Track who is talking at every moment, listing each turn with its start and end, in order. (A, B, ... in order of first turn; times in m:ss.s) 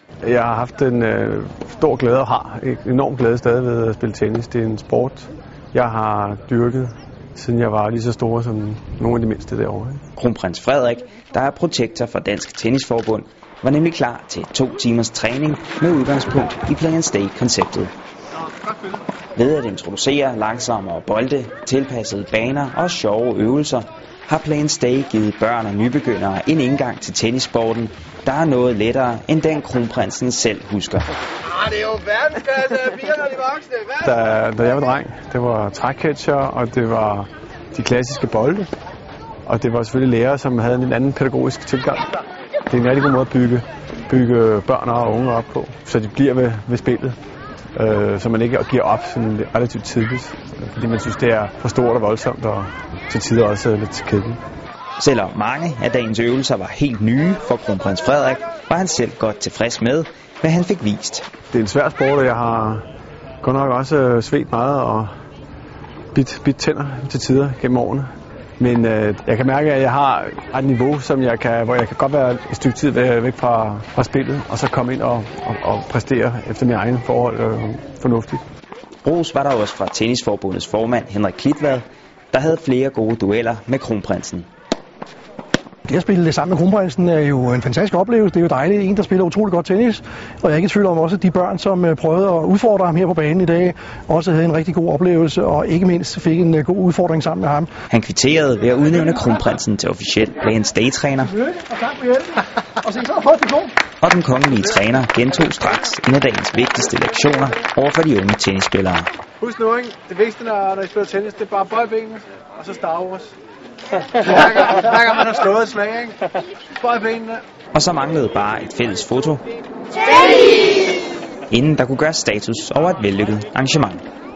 0:00.2-0:10.0 A
0:10.2-0:17.9 B
0:19.3-0:31.1 B
0:31.8-0:33.6 C
0:34.0-0:38.7 A
0:39.4-0:42.1 A
0:42.7-0:47.2 A
0:47.7-0:54.4 A
0:55.0-1:01.3 B
1:01.5-1:02.8 A
1:03.4-1:05.1 A
1:06.1-1:18.4 A
1:19.0-1:24.5 B
1:25.9-1:37.7 D
1:37.9-1:41.4 B
1:43.0-1:43.4 D
1:44.0-1:49.1 B
1:49.4-1:53.3 C
1:54.1-1:56.2 C
1:56.8-1:57.4 C
1:57.7-1:59.4 B
2:01.5-2:04.0 B